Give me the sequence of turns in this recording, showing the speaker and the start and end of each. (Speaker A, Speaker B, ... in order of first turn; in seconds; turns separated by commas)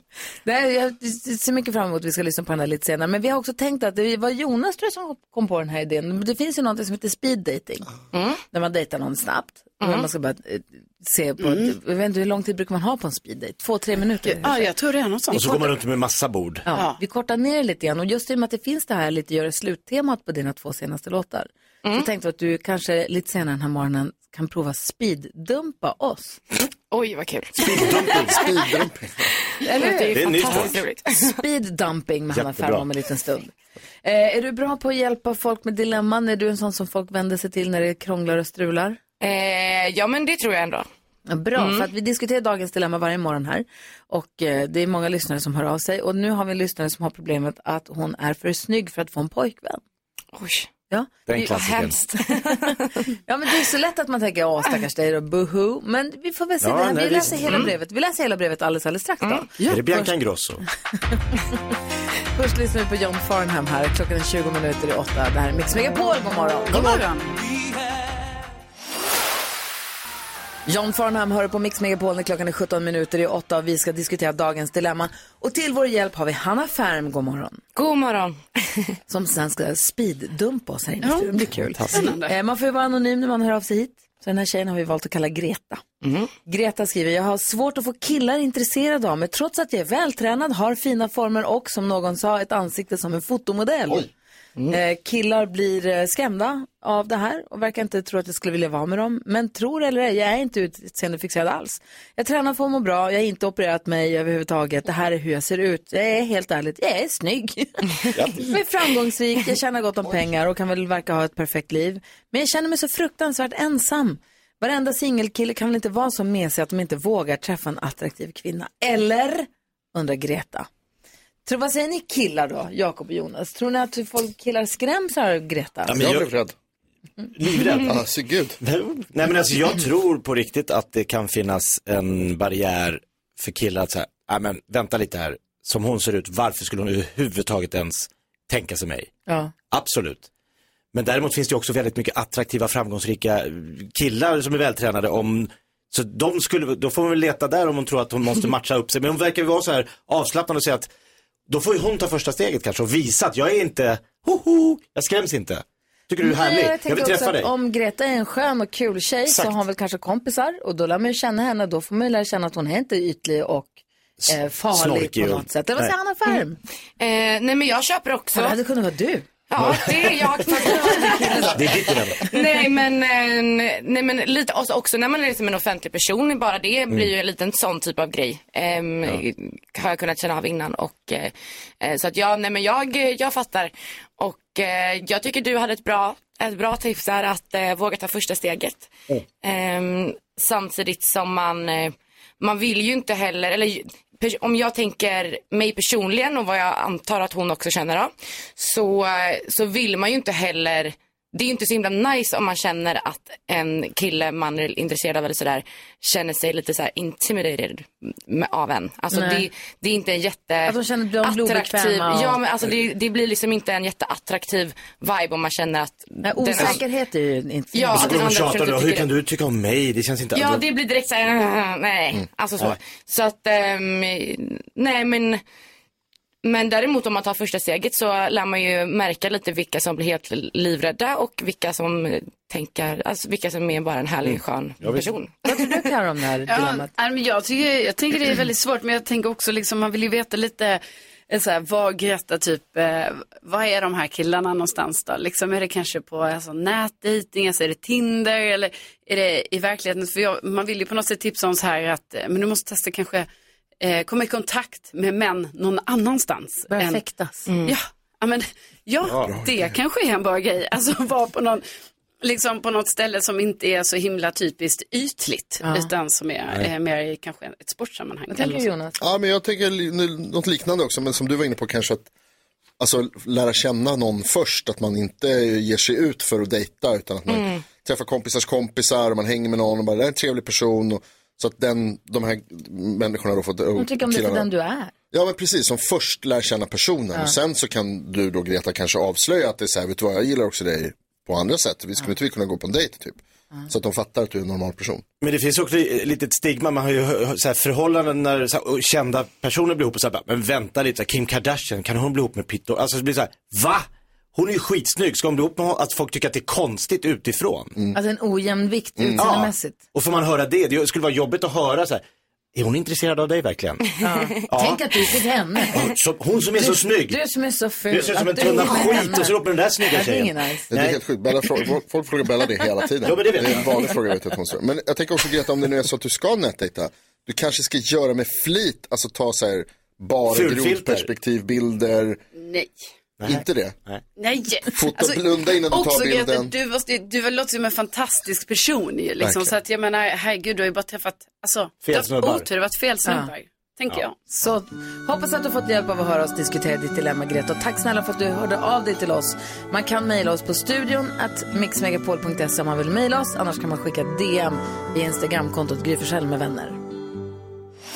Speaker A: 0.5-7.9, Speaker B: 8.1-8.4, Speaker A: 8.5-14.7, Speaker B: 9.8-10.1, Speaker C: 11.4-11.7, Speaker C: 14.2-15.8, Speaker D: 15.3-16.7, Speaker A: 16.7-26.4, Speaker C: 16.7-17.0, Speaker B: 21.8-22.1, Speaker B: 26.9-28.2, Speaker D: 27.6-28.5, Speaker E: 28.3-29.3, Speaker B: 29.6-31.4, Speaker A: 29.6-33.5, Speaker D: 30.1-30.8, Speaker D: 32.3-32.9, Speaker A: 34.0-39.0, Speaker B: 39.2-40.9, Speaker A: 41.3-49.8, Speaker B: 41.6-41.9, Speaker B: 50.3-50.7, Speaker A: 50.9-60.1, Speaker D: 51.3-52.0, Speaker B: 51.5-53.0, Speaker D: 56.6-57.6, Speaker B: 59.2-59.5, Speaker D: 59.7-60.6, Speaker A: 62.4-67.0, Speaker C: 66.7-67.4, Speaker A: 70.7-77.6, Speaker B: 77.8-78.4, Speaker A: 79.1-85.8, Speaker C: 81.0-82.3, Speaker D: 81.7-82.0, Speaker B: 86.0-86.3, Speaker A: 86.5-94.1, Speaker A: 94.7-120.7, Speaker D: 108.2-108.5, Speaker A: 121.5-126.0, Speaker D: 125.9-126.3, Speaker E: 125.9-126.5, Speaker D: 127.3-128.0, Speaker E: 127.8-128.6, Speaker D: 128.6-139.1, Speaker A: 139.3-139.5, Speaker D: 139.7-140.3, Speaker D: 140.9-150.9, Speaker D: 151.5-157.5, Speaker A: 156.2-166.6, Speaker D: 159.3-159.6, Speaker D: 164.2-165.9, Speaker B: 167.0-168.6, Speaker A: 168.3-169.3, Speaker B: 169.5-171.4, Speaker D: 169.6-169.9, Speaker A: 170.5-172.4, Speaker D: 171.5-172.2, Speaker B: 172.2-188.9, Speaker B: 189.4-216.8, Speaker A: 209.1-209.5, Speaker A: 210.7-212.4, Speaker A: 216.2-218.2, Speaker B: 217.7-219.1, Speaker D: 217.9-220.6, Speaker B: 220.3-225.4, Speaker B: 226.4-235.7, Speaker D: 234.3-235.1, Speaker A: 235.4-236.9, Speaker C: 236.5-253.3, Speaker C: 253.8-257.0, Speaker A: 256.7-257.5, Speaker B: 257.5-257.8, Speaker C: 257.6-261.6, Speaker D: 259.1-259.4, Speaker E: 259.2-259.5, Speaker C: 262.2-268.7, Speaker A: 265.6-265.9, Speaker A: 268.3-269.0, Speaker E: 269.0-272.1, Speaker E: 272.8-284.5, Speaker B: 277.3-277.6, Speaker A: 283.8-284.9, Speaker E: 285.1-295.0, Speaker D: 295.2-307.8, Speaker A: 307.9-309.8, Speaker E: 309.0-309.2, Speaker D: 309.2-312.0, Speaker D: 312.6-313.9, Speaker A: 314.0-315.8, Speaker D: 314.5-315.2, Speaker D: 315.7-317.2, Speaker A: 316.6-320.7, Speaker D: 317.9-321.0, Speaker E: 320.7-332.2, Speaker D: 323.0-323.7, Speaker D: 330.3-331.1, Speaker C: 332.4-332.8, Speaker D: 333.2-334.0, Speaker E: 333.3-333.8, Speaker C: 334.2-344.2, Speaker E: 334.7-336.5, Speaker E: 339.2-339.5, Speaker D: 341.9-342.5, Speaker A: 343.1-343.3, Speaker A: 344.3-356.8